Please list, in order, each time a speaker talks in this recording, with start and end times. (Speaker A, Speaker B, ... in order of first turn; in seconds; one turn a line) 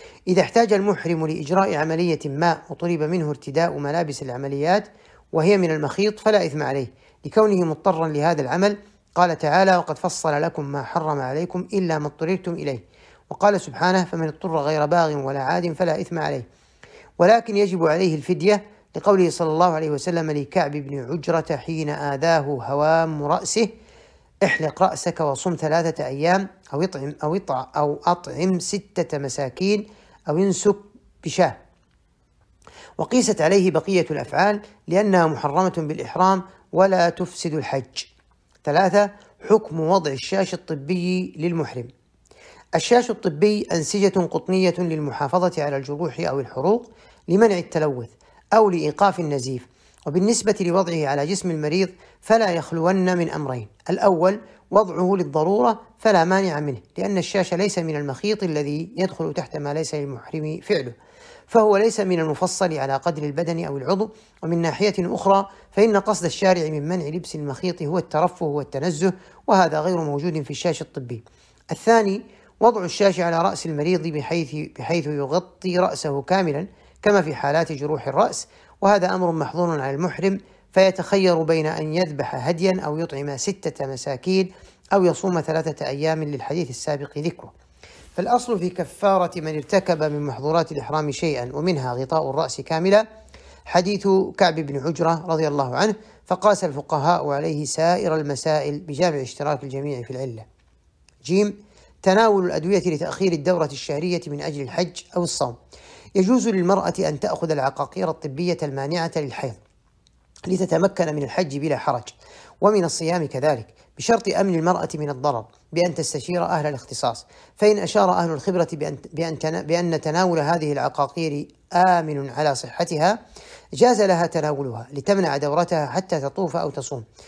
Speaker A: 0.3-16.4
Speaker A: 17.2-23.7
Speaker A: 24.4-31.6
Speaker A: 33.0-38.1
Speaker A: 38.6-41.9
Speaker A: 42.8-61.0
Speaker A: 61.5-87.5
Speaker A: 88.2-93.0
Speaker A: 93.7-100.5
Speaker A: 101.2-105.5
Speaker A: 106.2-109.6
Speaker A: 110.5-112.1
Speaker A: 112.6-123.2
Speaker A: 123.8-127.0